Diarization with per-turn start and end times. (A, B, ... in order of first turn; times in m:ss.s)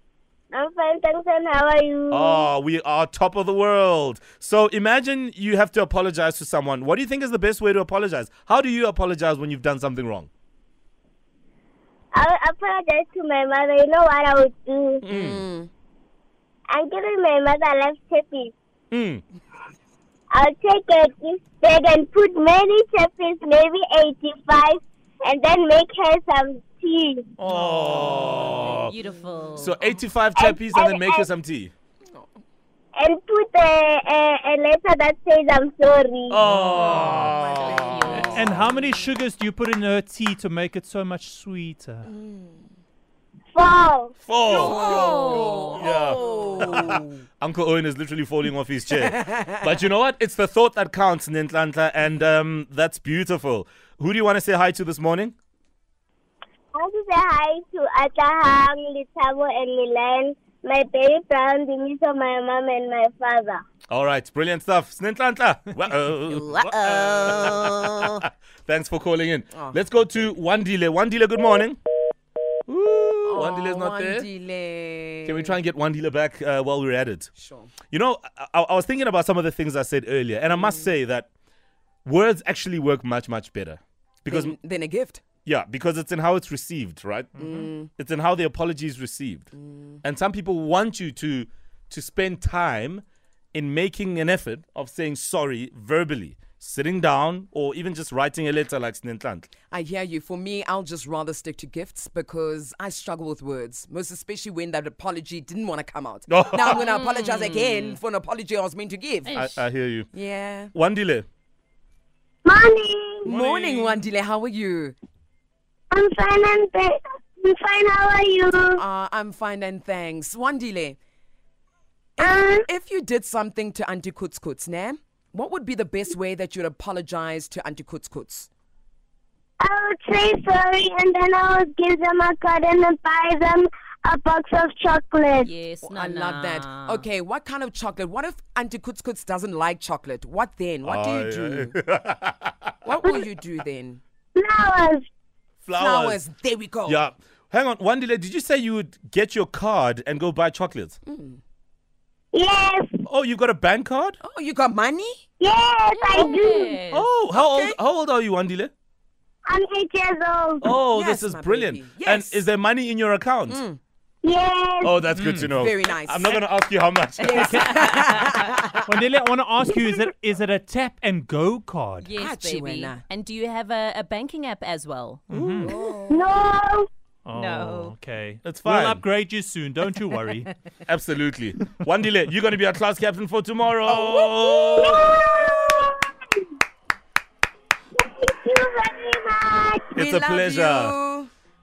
0:00.5-0:02.5 A
0:02.1-0:10.3 B
0:12.2-0:15.0 A
0:15.0-0:15.4 B
0:15.1-0:15.7 C
0:16.7-0:18.5 A
0:18.9-0:19.2 B
0:20.3-0:27.3 A
0:27.4-0:28.9 B
0:27.5-0:29.1 C
0:28.6-0:29.8 D
0:29.6-0:31.7 B
0:30.4-0:31.3 A
0:33.0-0:36.4 A
0:36.3-0:38.6 B
0:36.5-0:37.3 E
0:36.8-0:38.6 C
0:37.4-0:38.5 D
0:38.1-0:42.1 E
0:42.0-0:42.6 C
0:43.5-0:44.1 A
0:44.2-0:55.4 B
0:44.5-0:47.1 C
0:44.5-0:46.0 D
0:49.0-0:49.6 C
0:56.8-1:03.6 A
1:03.9-1:11.8 B
1:06.3-1:08.1 D
1:09.5-1:09.8 C
1:12.7-1:14.3 B
1:13.3-1:15.6 C
1:15.3-1:17.3 B
1:17.4-1:17.7 C
1:17.9-1:21.3 B
1:22.0-1:24.6 B
1:24.3-1:25.2 C
1:25.4-1:27.4 B
1:27.4-1:27.6 E
1:27.4-1:27.9 C
1:27.9-1:29.5 B
1:30.0-1:33.0 B
1:33.5-1:39.5 B
1:39.7-1:49.4 C
1:46.3-1:46.8 B
1:46.8-1:48.0 D
1:49.2-1:49.6 D
1:49.3-1:50.1 B
1:50.1-1:50.7 C
1:50.7-1:51.3 B
1:52.5-1:53.3 A
1:53.2-1:55.0 C
1:53.3-1:54.0 B
1:55.9-1:58.8 A
1:58.8-2:01.0 C
2:02.2-2:08.5 C
2:02.2-2:02.6 A
2:09.6-2:15.5 A
2:15.4-2:17.0 D
2:15.8-2:21.8 C
2:20.8-2:22.5 B
2:22.8-2:24.0 C
2:24.4-2:25.0 A
2:25.6-2:26.2 B
2:25.8-2:27.1 C
2:26.9-2:31.0 B
2:31.1-2:31.4 C
2:32.3-2:33.0 A
2:33.1-2:34.2 B
2:34.2-2:35.2 C
2:35.4-2:36.8 A
2:35.9-2:37.1 D
2:36.9-2:38.7 B
2:37.3-2:37.8 C
2:39.5-2:40.7 A
2:40.6-2:43.6 B
2:40.9-2:42.4 C
2:43.5-2:43.8 C
2:44.2-2:45.0 A
2:44.8-2:48.0 B
2:45.1-2:45.5 E
2:45.5-2:46.4 C
2:47.2-2:48.9 C
2:47.3-2:52.1 E
2:52.0-2:56.0 D
2:52.2-2:53.0 C
2:55.3-2:55.7 E
2:55.3-2:55.7 B
2:55.6-2:56.3 C
2:56.1-2:56.9 A
2:57.3-3:00.5 E
2:57.3-2:58.0 D
2:58.4-2:59.0 B
3:00.9-3:05.1 B
3:04.8-3:06.1 A
3:08.0-3:10.0 A
3:10.0-3:10.9 B
3:10.0-3:11.3 C